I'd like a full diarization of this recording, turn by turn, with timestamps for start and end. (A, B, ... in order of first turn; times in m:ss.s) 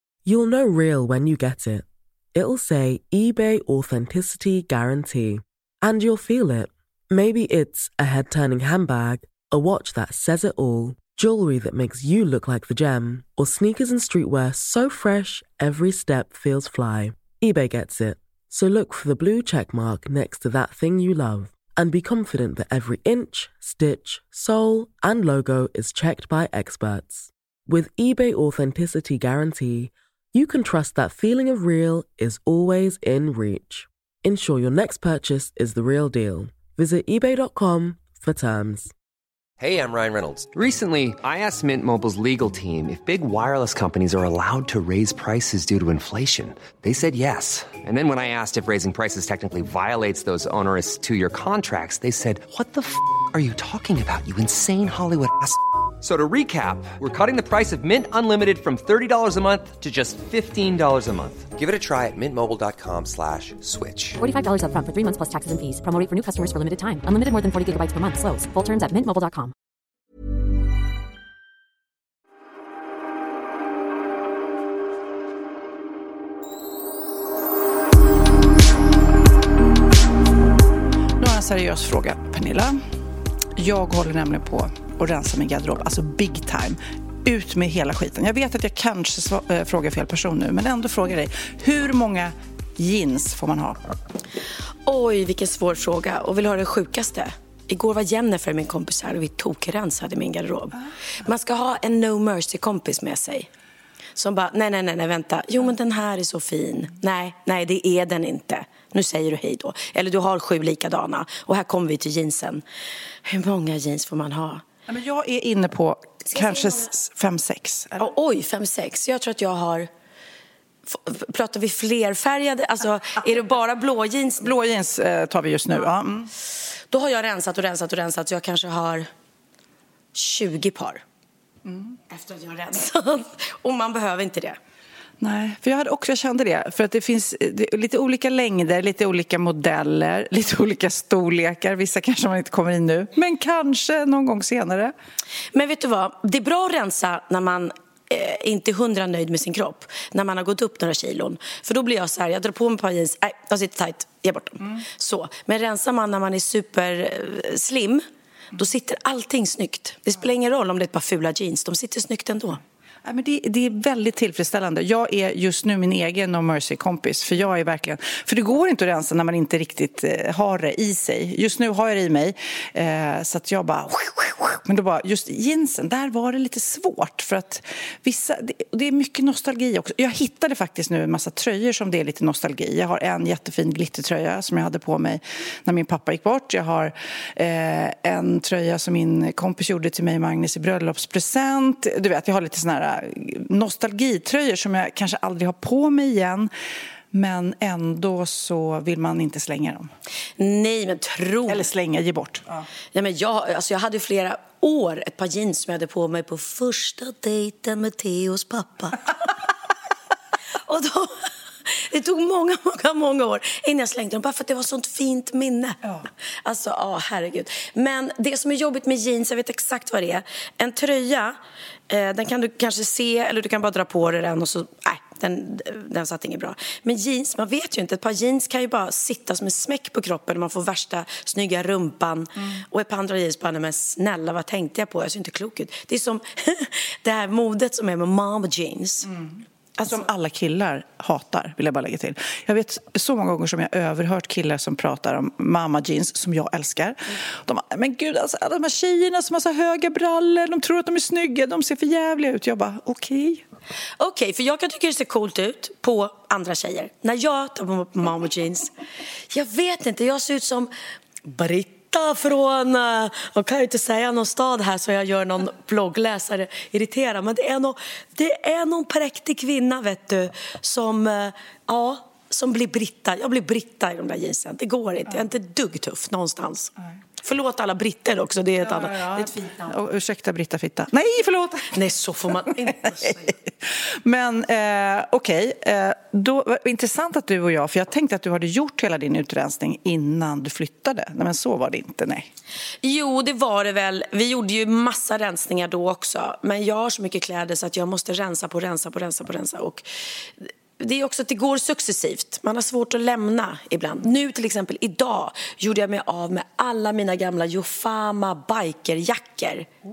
0:00.2-0:38.9 A
0:39.6-1:04.2 B
1:04.2-1:09.5 C
1:21.2-1:22.8 D
1:23.5-1:33.8 D
1:34.8-1:43.5 E
1:44.2-1:52.6 E
1:53.2-1:54.6 E
1:54.9-1:58.1 D
1:56.3-1:56.9 E
1:58.0-1:59.9 E
2:00.9-2:04.5 E
2:04.4-2:06.3 D
2:06.9-2:09.1 E
2:10.1-2:11.0 E
2:11.6-2:12.0 D
2:12.1-2:14.6 E
2:15.2-2:24.9 D
2:25.5-2:38.0 E
2:38.6-2:42.6 E
2:43.0-3:16.5 D
3:17.1-3:19.9 D
3:20.4-3:21.6 E
3:21.5-3:22.6 D
3:22.9-3:29.3 E
3:30.6-3:35.8 E
3:36.4-3:41.4 E
3:41.9-3:59.1 E
3:59.1-4:13.4 D
3:59.8-4:00.0 E
4:14.0-4:18.7 E
4:19.3-4:20.7 E
4:21.2-4:39.8 E
4:38.6-4:41.8 D
4:41.7-4:43.4 E
4:43.0-4:52.3 D
4:52.8-4:59.8 E
5:00.4-5:09.7 E